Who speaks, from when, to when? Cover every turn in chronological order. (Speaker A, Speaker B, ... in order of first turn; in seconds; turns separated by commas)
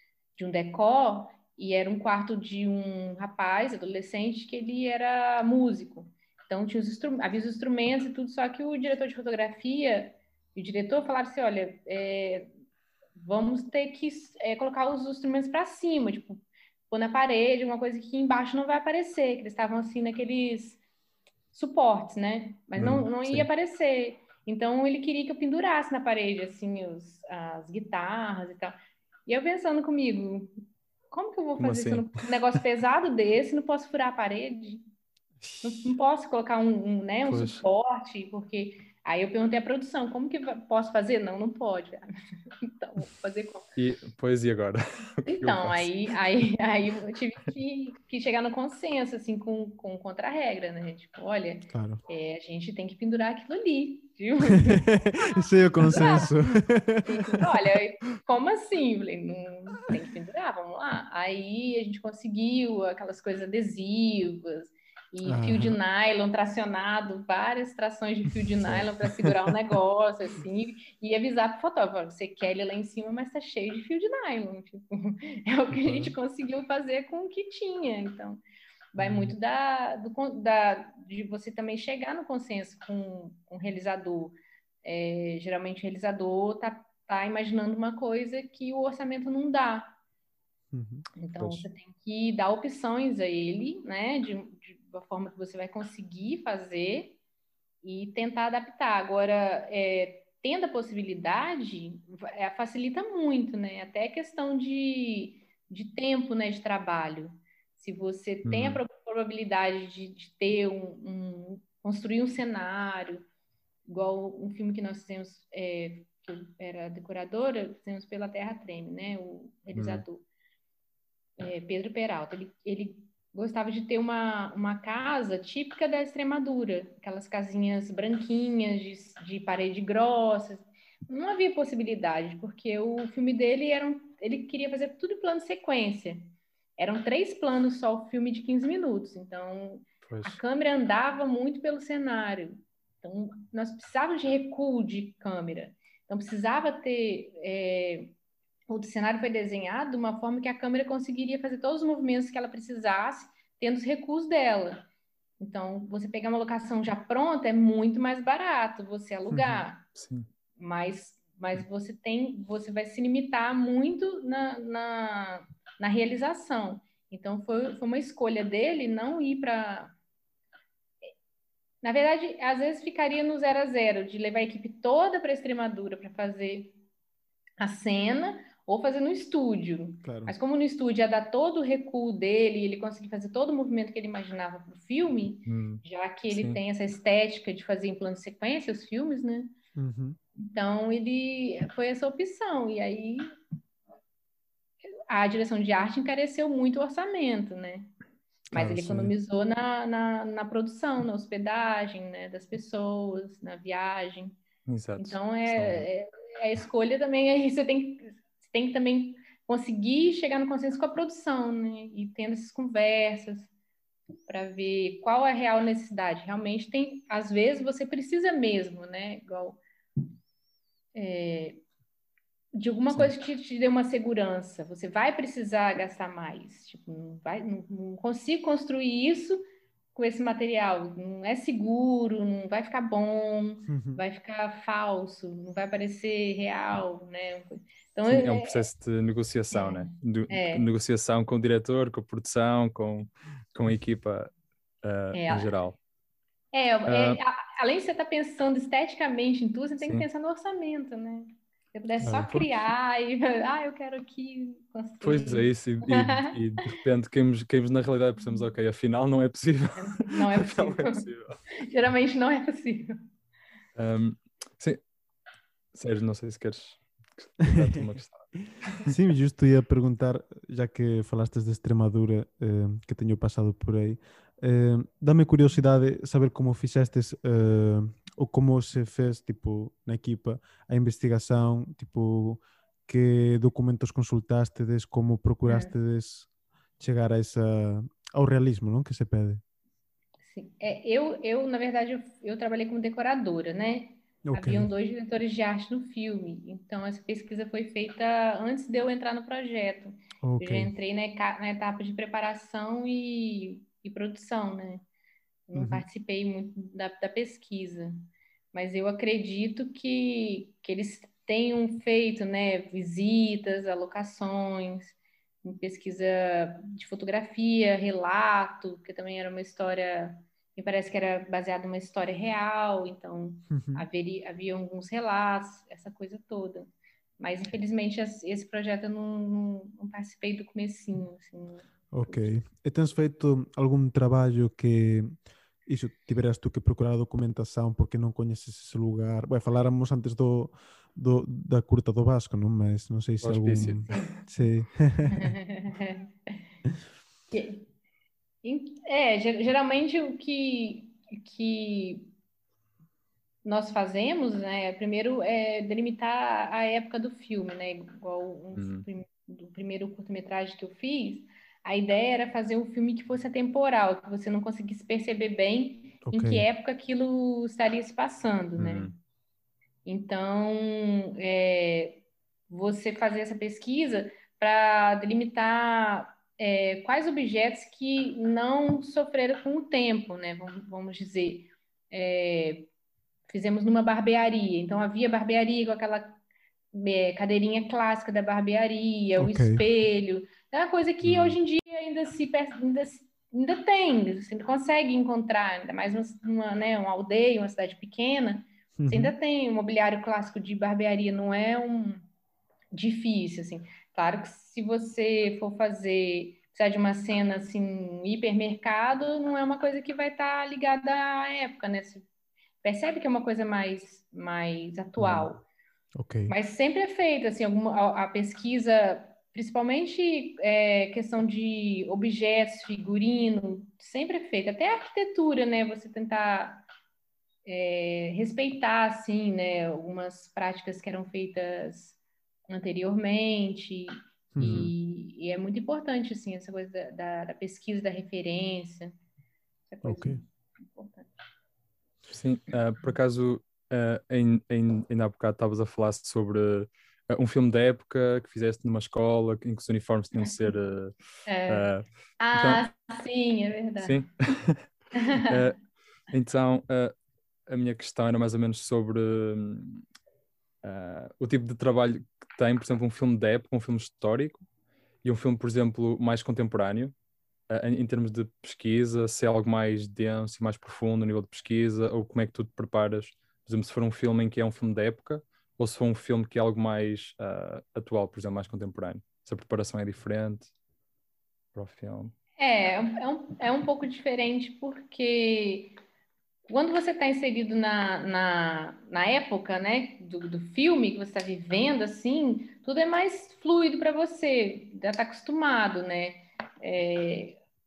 Speaker A: 0.3-12.5, Speaker A: 13.2-20.8, Speaker A: 21.5-30.5, Speaker B: 22.8-23.5, Speaker A: 31.1-34.8, Speaker B: 31.6-32.1, Speaker A: 35.6-42.0, Speaker B: 37.2-37.6, Speaker A: 42.6-43.7, Speaker B: 43.8-45.9, Speaker A: 45.2-54.9, Speaker C: 51.7-52.0, Speaker C: 54.6-57.5, Speaker A: 55.8-56.3, Speaker A: 57.0-78.4, Speaker C: 65.2-65.8, Speaker B: 75.8-76.1, Speaker A: 78.9-90.0, Speaker B: 79.0-79.3, Speaker C: 90.7-91.0, Speaker A: 91.2-97.2, Speaker A: 97.8-113.2, Speaker B: 108.4-108.8, Speaker A: 113.8-120.2, Speaker B: 119.7-120.0, Speaker A: 121.4-148.1, Speaker B: 140.0-140.4, Speaker A: 148.7-154.8, Speaker A: 155.4-159.8, Speaker C: 159.3-159.6, Speaker B: 159.9-160.3, Speaker A: 160.6-169.9, Speaker A: 171.8-176.8, Speaker A: 177.6-189.5, Speaker C: 180.0-180.3, Speaker B: 185.5-186.6, Speaker C: 189.8-190.2, Speaker A: 190.4-193.3, Speaker A: 195.1-197.9, Speaker C: 198.5-199.1, Speaker A: 198.5-204.4, Speaker B: 204.7-205.8, Speaker A: 205.0-213.5, Speaker A: 214.3-219.6, Speaker A: 220.9-221.6, Speaker A: 222.6-229.4, Speaker A: 229.9-238.6, Speaker C: 233.7-234.0, Speaker B: 238.1-244.3, Speaker A: 239.5-240.7, Speaker B: 244.8-245.8, Speaker A: 245.1-245.6, Speaker A: 246.5-256.8, Speaker B: 246.8-247.2, Speaker B: 249.8-250.1, Speaker B: 252.0-252.6, Speaker B: 255.0-261.4, Speaker A: 258.2-258.5, Speaker A: 259.7-263.0, Speaker B: 263.8-264.8, Speaker B: 265.7-268.9, Speaker C: 267.5-267.8, Speaker C: 268.9-289.4, Speaker A: 285.4-285.7, Speaker A: 290.2-304.8, Speaker C: 294.3-294.7, Speaker C: 300.2-300.7, Speaker A: 305.5-307.9, Speaker C: 305.5-305.8, Speaker A: 308.5-332.3, Speaker C: 323.5-323.9, Speaker C: 331.9-335.1, Speaker C: 335.6-345.3, Speaker B: 343.2-344.2, Speaker A: 343.9-344.2, Speaker A: 345.1-346.4, Speaker A: 347.3-347.7, Speaker A: 348.4-352.1, Speaker A: 353.4-368.9, Speaker B: 358.5-358.9, Speaker C: 366.0-366.4, Speaker B: 368.6-368.9, Speaker A: 369.8-382.7, Speaker A: 383.3-386.2, Speaker A: 386.7-402.0, Speaker C: 389.2-389.6, Speaker B: 391.0-391.4, Speaker C: 398.8-399.1, Speaker A: 402.7-412.0, Speaker A: 412.6-415.4, Speaker C: 416.0-416.3, Speaker A: 416.3-426.6, Speaker A: 427.4-438.9, Speaker C: 434.3-434.7, Speaker B: 434.4-434.7, Speaker A: 439.7-441.1, Speaker C: 439.8-440.2, Speaker B: 442.1-450.9, Speaker A: 451.3-451.7, Speaker B: 451.5-451.8, Speaker A: 452.2-454.0, Speaker B: 452.3-452.6, Speaker B: 453.8-454.7, Speaker A: 454.9-455.4, Speaker B: 455.2-456.9, Speaker B: 457.5-459.8, Speaker B: 460.6-464.4, Speaker B: 465.0-466.9, Speaker B: 467.5-480.5, Speaker B: 481.5-482.1, Speaker A: 482.4-485.8, Speaker A: 486.5-497.4